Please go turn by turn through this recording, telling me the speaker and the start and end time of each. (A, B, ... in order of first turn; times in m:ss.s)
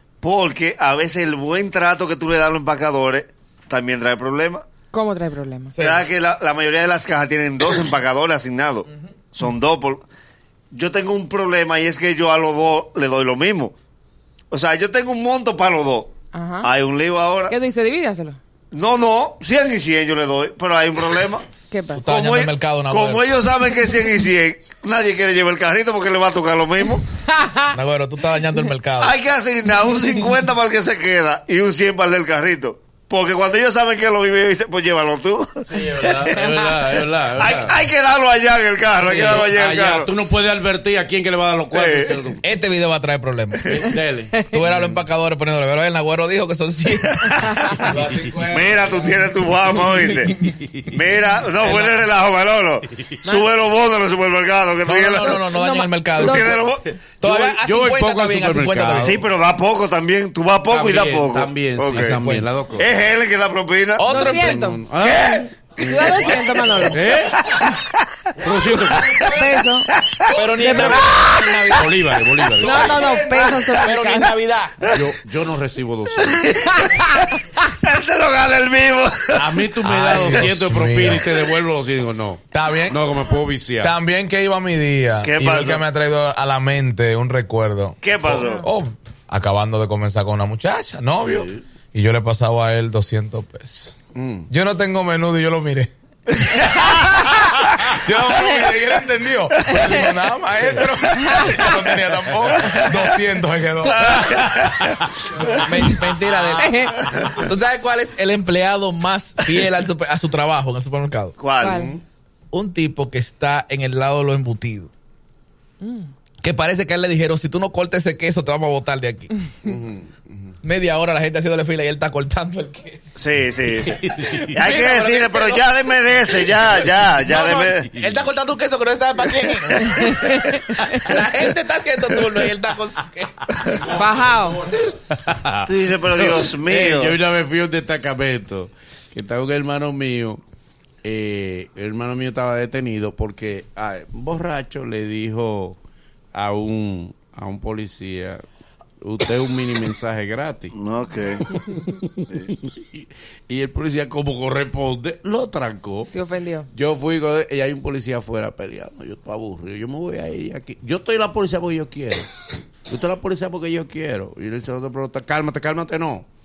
0:00.2-0:04.6 A
0:04.9-0:05.8 B
0:05.8-0:06.1 C
0:05.8-0:10.1 A
0:10.7-0:13.7 A
0:14.5-0:17.5 A
0:16.3-0:16.7 B
0:17.5-0:18.4 B
0:18.7-0:21.4 A
0:21.7-0:22.1 B
0:22.0-0:23.2 C
0:22.0-0:27.0 A
0:27.4-0:27.6 B
0:27.7-0:29.1 C
0:29.0-0:36.4 A
0:35.7-0:37.8 D
0:37.4-0:40.1 A
0:39.0-0:42.4 D
0:41.7-0:42.2 A
0:42.4-0:43.8 C
0:43.6-0:45.0 D
0:44.4-0:49.2 C
0:47.0-0:50.3 A
0:47.9-0:48.7 D
0:49.7-0:50.5 C
0:50.3-0:50.9 D
0:50.9-0:55.4 A
0:51.6-0:52.0 C
0:52.9-0:53.2 D
0:54.8-0:56.6 C
0:55.2-0:56.6 B
0:56.1-0:56.8 A
0:56.8-0:59.3 D
0:57.2-0:59.1 C
0:59.0-1:02.2 A
1:00.7-1:02.9 D
1:02.0-1:02.5 C
1:02.8-1:04.1 A
1:04.0-1:04.6 C
1:04.0-1:04.8 B
1:04.1-1:06.2 D
1:05.0-1:06.3 A
1:05.8-1:07.0 B
1:06.2-1:07.0 C
1:06.9-1:07.5 D
1:07.5-1:07.9 A
1:08.4-1:09.3 D
1:08.7-1:11.3 A
1:09.3-1:09.9 B
1:10.3-1:11.9 C
1:10.5-1:11.2 B
1:11.8-1:13.1 D
1:12.6-1:14.4 B
1:12.6-1:13.1 C
1:12.7-1:13.7 A
1:13.7-1:14.8 C
1:14.8-1:16.5 D
1:16.2-1:17.2 A
1:16.8-1:17.2 B
1:17.8-1:20.5 A
1:19.3-1:23.9 D
1:19.8-1:21.3 E
1:22.5-1:23.1 E
1:23.8-1:33.9 E
1:25.2-1:25.8 A
1:28.0-1:28.6 A
1:31.1-1:31.6 D
1:34.2-1:34.5 D
1:34.5-1:35.9 E
1:37.6-1:44.2 E
1:38.4-1:38.7 B
1:39.7-1:40.1 B
1:41.1-1:41.9 B
1:42.5-1:42.9 A
1:43.8-1:44.5 B
1:43.8-1:45.6 A
1:44.2-1:45.9 D
1:45.5-1:51.4 C
1:46.5-1:47.3 B
1:51.4-1:51.9 A
1:51.6-1:51.9 B
1:51.7-1:52.0 D
1:52.5-1:54.9 C
1:55.8-1:56.1 B
1:56.4-1:59.3 C
1:59.6-2:00.5 D
2:00.6-2:03.1 C
2:03.2-2:04.0 A
2:03.8-2:04.8 D
2:04.5-2:07.9 A
2:04.6-2:05.6 C
2:06.4-2:07.2 D
2:07.2-2:13.3 C
2:07.8-2:08.2 D
2:10.0-2:10.4 B
2:13.6-2:20.4 D
2:13.9-2:14.6 B
2:15.6-2:17.2 A
2:21.0-2:25.8 D
2:26.3-2:28.4 D
2:29.0-2:30.8 D
2:30.7-2:31.4 A
2:31.5-2:36.1 D
2:36.1-2:36.7 B
2:36.7-2:42.3 D
2:42.9-2:46.3 D